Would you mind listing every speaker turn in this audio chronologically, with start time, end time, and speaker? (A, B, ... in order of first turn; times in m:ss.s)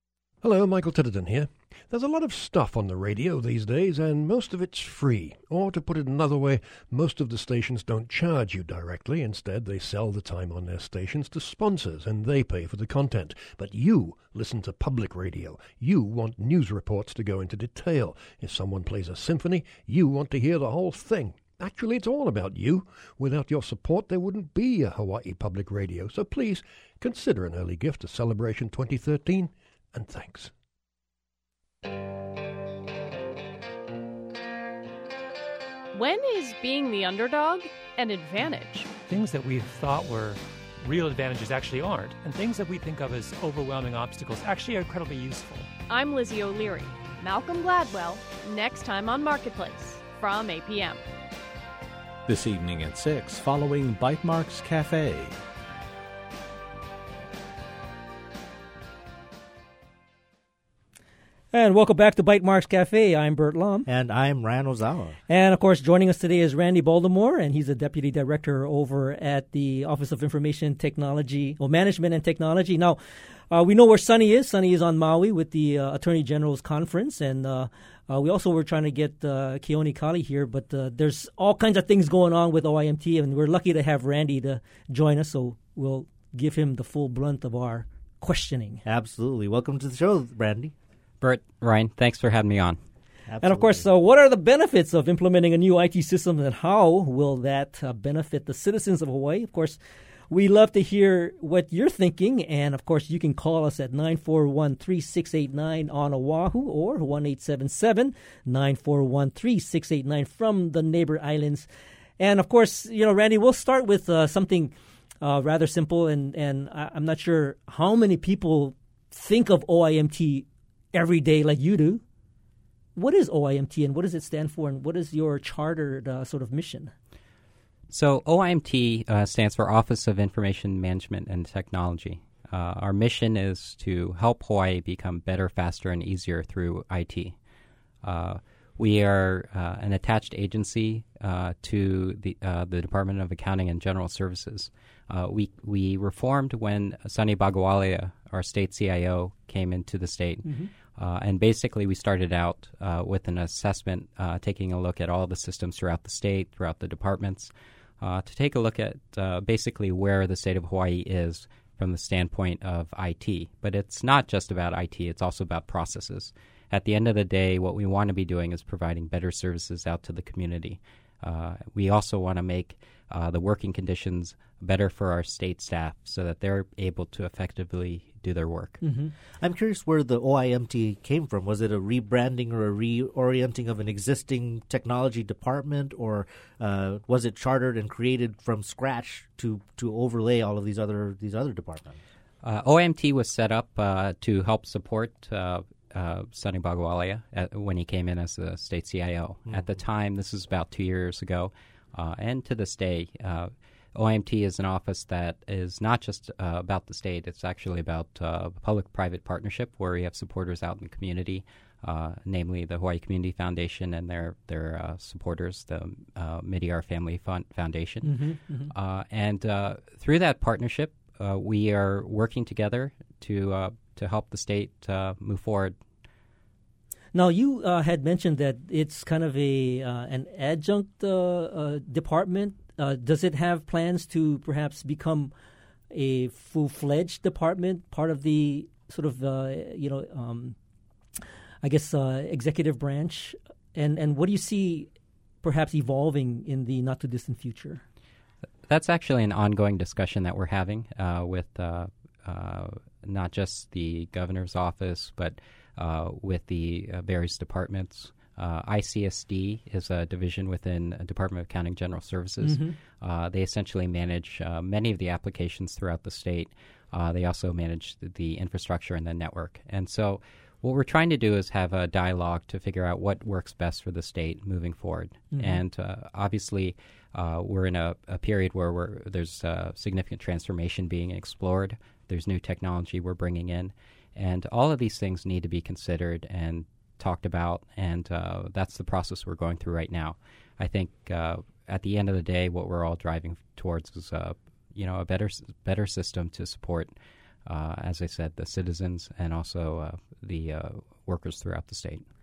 0:00.4-0:30.5 A
0:35.9-0:38.9 B
0:39.0-0:45.7 C
0:45.9-0:51.1 B
0:52.2-0:55.4 D
1:01.5-1:03.9 E
1:03.8-1:05.2 F
1:05.3-1:13.0 E
1:13.5-1:28.8 E
1:28.8-1:30.7 F
1:31.2-1:32.8 G
1:33.3-1:33.8 F
1:33.4-1:39.8 E
1:40.3-1:51.7 E
1:52.2-2:02.0 E
2:03.0-2:06.9 E
2:07.9-2:17.3 G
2:18.0-2:58.8 G
2:30.4-2:30.7 E
2:58.8-2:59.1 E
2:59.4-3:12.0 F
3:12.4-3:38.2 G
3:38.0-3:38.7 E
3:38.7-3:45.8 G
3:47.1-3:55.3 E
3:55.9-4:00.6 E
4:01.6-4:04.9 E
4:05.4-4:07.8 E
4:08.7-4:56.9 G
4:22.4-4:22.7 E
4:35.3-4:35.6 E
4:57.5-5:02.0 G